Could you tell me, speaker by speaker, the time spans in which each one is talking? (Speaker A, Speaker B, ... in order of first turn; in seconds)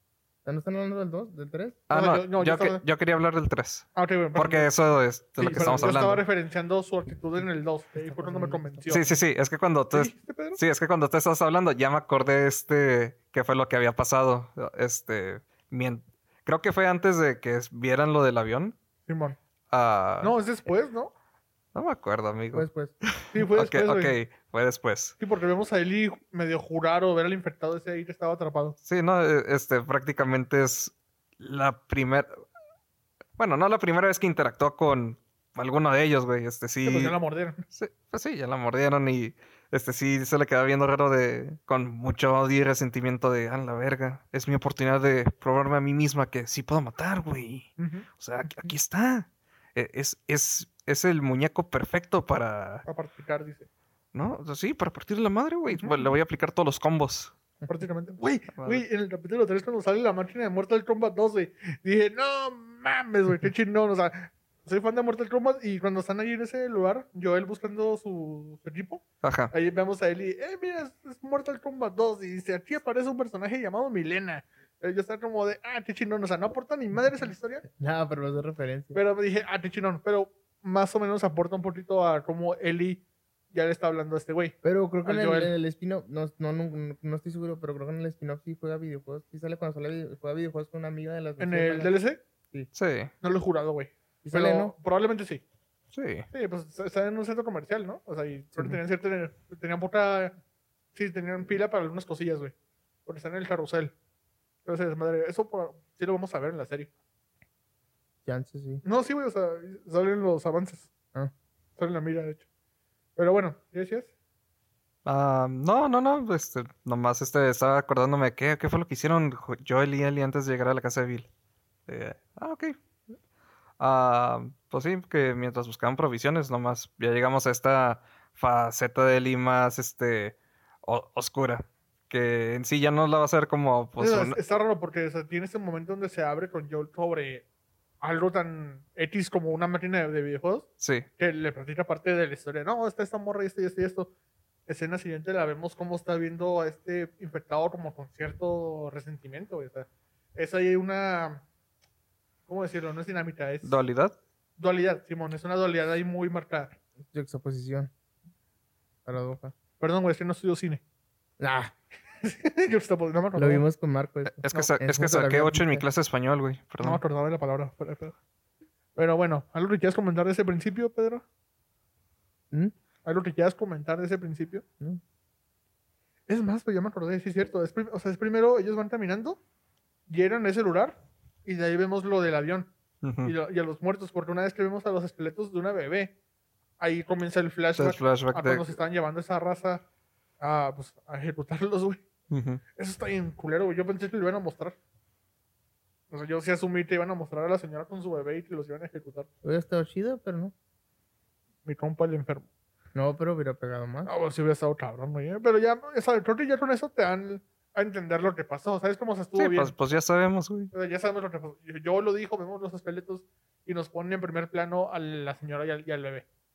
Speaker A: 0.4-1.8, 5.5-5.9, 7.4-9.2, 22.5-22.9, 77.7-79.0, 84.6-91.9, 94.2-94.7, 108.2-108.8, 157.1-157.9, 159.1-159.5, 161.4-161.7, 163.3-165.9, 199.4-200.5, 202.9-204.1
Speaker B: 1.9-6.2, 8.9-18.7, 19.7-20.3, 21.7-25.2, 28.8-32.4, 33.4-37.1, 37.7-52.9, 54.1-57.3, 58.5-58.8, 69.2-69.5, 92.7-93.1, 95.9-96.3, 115.0-121.3, 121.9-122.8, 123.8-134.4, 140.8-141.1, 153.6-154.2, 164.2-167.0, 183.0-183.3, 187.8-188.8, 192.3-192.6, 209.4-210.7
Speaker C: 1.9-2.8, 4.0-4.7, 5.4-9.1, 9.9-10.6, 19.1-19.4, 20.2-21.1, 23.3-24.1, 25.2-28.8, 36.8-37.6, 47.8-48.1, 52.9-53.7, 55.7-56.1, 57.6-77.6, 78.9-85.5, 91.4-92.2, 93.2-95.4, 96.3-100.4, 100.9-102.5, 103.0-103.9, 104.6-106.9, 108.8-110.9, 111.8-112.4, 113.2-114.1, 134.0-137.4, 138.0-140.7, 141.2-144.1, 144.7-151.4, 152.5-153.8, 154.6-156.8, 159.8-160.8, 162.2-163.6, 166.8-168.1, 168.9-171.2, 173.0-174.6, 176.3-179.4, 180.1-182.7, 183.2-186.1, 186.8-189.8, 190.4-192.0, 192.8-194.8, 196.1-199.3, 201.7-202.4, 204.1-209.7, 210.7-216.2